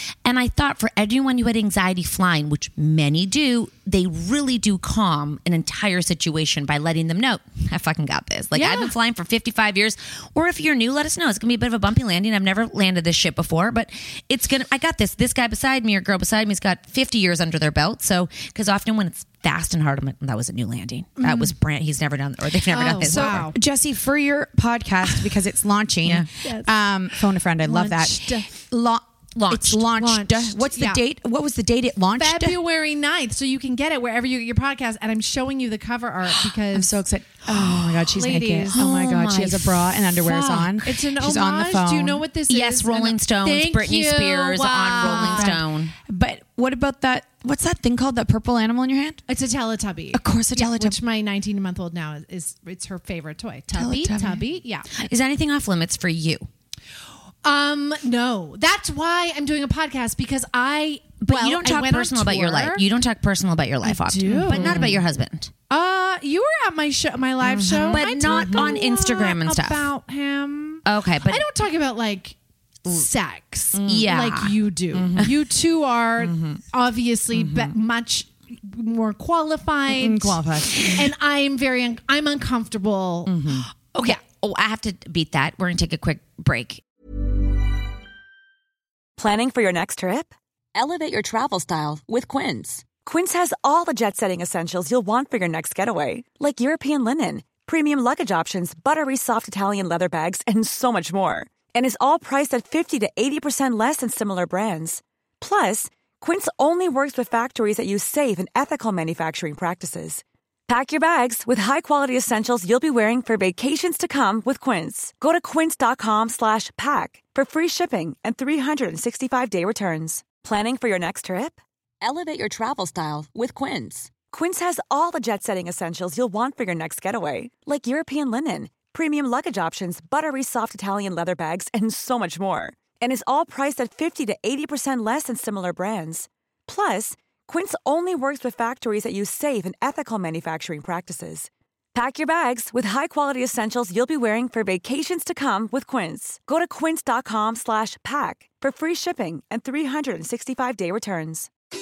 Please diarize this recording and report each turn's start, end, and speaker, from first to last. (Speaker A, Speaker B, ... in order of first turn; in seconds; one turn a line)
Speaker A: 0.2-23.5
Speaker B: 8.5-8.9
Speaker B: 21.2-21.5
Speaker B: 22.7-23.6
Speaker C: 23.0-32.6
Speaker B: 26.4-26.7
Speaker B: 27.6-28.6
Speaker A: 29.3-29.9
Speaker B: 29.9-31.0
Speaker B: 32.1-37.0
Speaker C: 36.7-42.2
Speaker B: 38.1-38.9
Speaker A: 38.7-40.7
Speaker B: 40.6-45.6
Speaker A: 42.5-45.9
Speaker C: 45.0-49.2
Speaker B: 49.3-54.9
Speaker C: 50.1-51.0
Speaker C: 53.7-54.4
Speaker A: 54.9-56.5
Speaker B: 57.4-62.8
Speaker A: 61.2-65.5
Speaker B: 63.8-65.0
Speaker C: 64.2-65.0
Speaker B: 65.7-83.3
Speaker C: 67.5-68.8
Speaker A: 67.6-69.9
Speaker A: 70.8-71.4
Speaker C: 73.7-74.1
Speaker A: 73.8-74.5
Speaker C: 74.9-75.3
Speaker C: 76.2-76.6
Speaker C: 77.3-77.7
Speaker C: 79.9-81.1
Speaker C: 83.3-83.7
Speaker A: 83.9-86.8
Speaker D: 89.2-90.3
Speaker D: 91.2-121.6
Speaker D: 122.2-151.5